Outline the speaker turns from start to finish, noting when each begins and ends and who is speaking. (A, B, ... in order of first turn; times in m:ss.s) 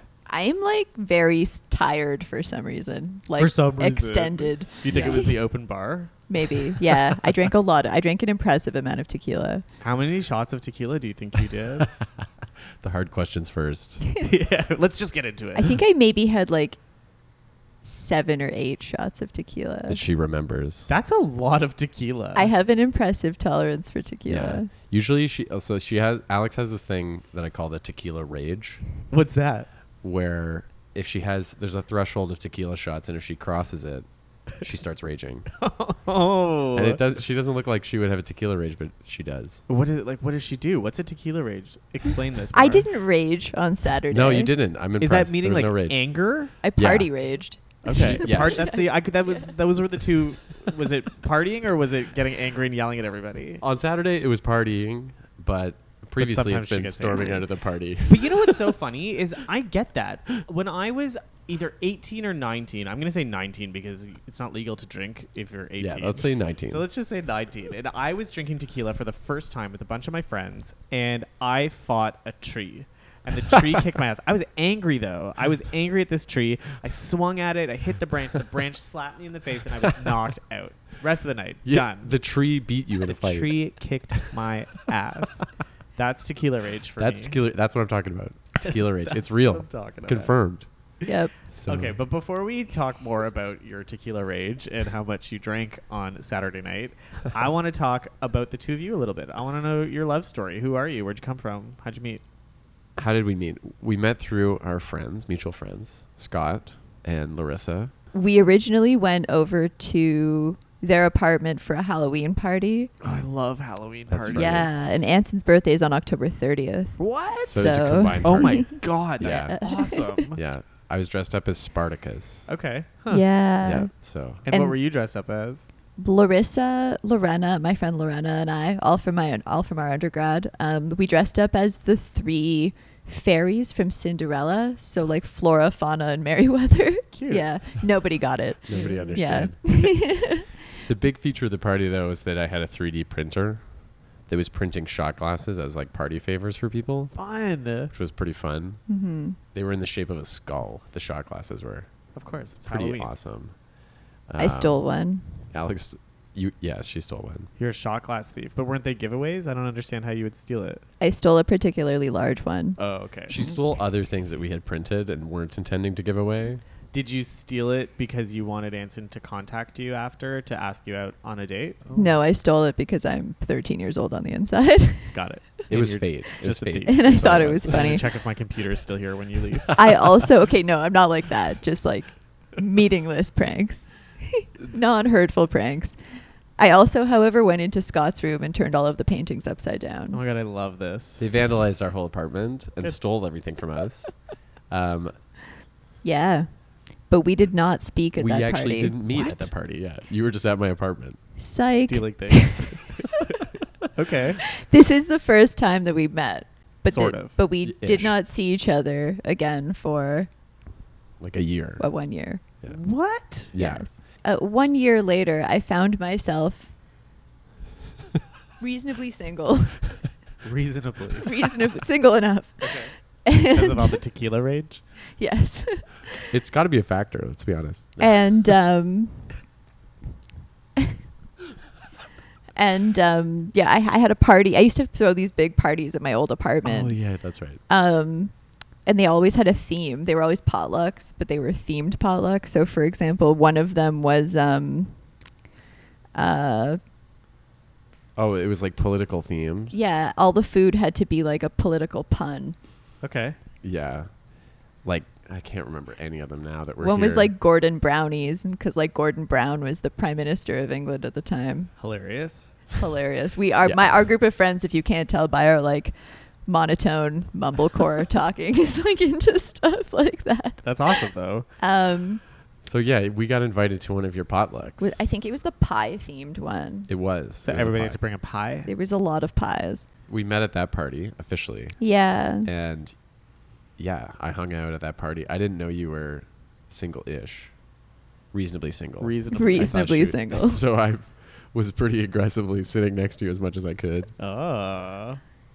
0:00.3-0:05.3 A
0:03.4-0:07.5 B
0:04.9-0:05.3 C
0:06.3-0:09.6 A
0:09.8-0:11.9 B
0:11.8-0:12.2 C
0:12.8-0:14.0 C
0:14.2-0:15.7 B
0:15.6-0:16.8 A
0:17.8-0:20.0 A
0:19.9-0:20.9 C
0:20.9-0:22.5 B
0:22.4-0:24.7 A
0:24.3-0:28.8 C
0:29.1-0:29.7 B
0:30.0-0:35.5 C
0:35.6-0:37.1 B
0:36.8-0:39.6 C
0:39.7-0:42.9 B
0:42.5-0:44.5 A
0:44.1-0:46.0 C
0:45.0-0:46.5 B
0:46.6-0:49.5 A
0:46.8-0:47.1 C
0:47.8-0:53.6 B
0:47.9-0:48.7 C
0:53.6-0:58.7 C
0:56.2-0:57.5 B
0:58.0-1:22.2 B
1:05.8-1:06.8 C
1:19.9-1:20.2 C
1:21.6-1:23.6 C
1:23.0-1:27.4 B
1:27.0-1:30.7 C
1:28.6-1:30.4 B
1:31.1-1:31.3 A
1:31.5-1:32.0 C
1:31.7-1:42.2 B
1:43.0-1:47.9 C
1:48.1-1:52.9 A
1:53.0-1:54.9 B
1:54.1-1:54.8 C
1:54.3-2:00.2 A
1:57.0-2:00.4 B
1:57.5-2:02.5 C
2:02.5-2:03.3 B
2:03.1-2:03.9 A
2:03.6-2:04.4 C
2:04.4-2:05.6 B
2:04.5-2:04.8 A
2:06.0-2:20.5 A
2:17.1-2:17.9 B
2:18.7-2:19.6 C
2:18.7-2:19.3 B
2:20.8-2:23.7 C
2:24.3-2:27.1 C
2:27.2-2:27.9 B
2:27.9-2:28.8 C
2:28.9-2:29.4 A
2:29.5-2:31.9 C
2:32.2-2:33.1 B
2:32.6-2:33.6 C
2:34.3-2:34.8 C
2:34.4-2:35.4 A
2:35.5-2:37.5 C
2:37.6-2:40.8 B
2:41.0-2:42.8 A
2:42.8-2:43.4 B
2:43.3-2:46.6 C
2:43.3-2:43.6 A
2:46.9-2:52.1 B
2:51.9-2:55.2 A
2:55.1-2:59.9 B
2:55.7-2:57.8 C
2:56.9-2:58.1 A
2:59.7-3:06.0 A
3:06.6-3:10.2 A
3:10.1-3:11.3 B
3:11.2-3:15.2 C
3:16.0-3:19.5 A
3:18.2-3:21.2 C
3:21.4-3:22.9 A
3:21.8-3:24.5 B
3:24.6-3:30.3 A
3:26.9-3:27.4 B
3:27.6-3:28.2 C
3:31.2-3:31.9 C
3:31.8-3:32.4 A
3:32.7-3:33.6 B
3:33.5-3:33.9 C
3:33.6-3:36.7 A
3:38.6-3:40.1 A
3:40.4-3:41.3 B
3:41.2-3:44.0 A
3:42.6-3:44.8 B
3:45.2-3:46.3 A
3:46.3-3:48.4 C
3:48.0-3:49.3 A
3:52.6-3:57.0 A
3:56.6-3:57.6 C
3:57.7-4:05.0 A
4:06.1-4:06.8 A
4:08.2-4:09.7 C
4:09.7-4:12.6 A
4:13.0-4:13.4 B
4:13.6-4:14.3 C
4:14.8-4:17.3 C
4:16.8-4:21.7 A
4:21.8-4:22.8 B
4:22.8-4:31.1 A
4:23.6-4:24.0 C
4:30.6-4:31.5 B
4:31.6-4:32.2 A
4:32.6-4:35.0 C
4:34.8-4:36.9 A
4:36.9-4:38.0 C
4:37.4-4:38.7 B
4:38.6-4:39.9 A
4:40.1-4:43.0 C
4:41.8-4:42.5 A
4:43.8-4:47.6 C
4:48.3-4:54.1 C
4:49.0-4:49.8 B
4:49.3-4:50.6 A
4:54.2-4:55.2 B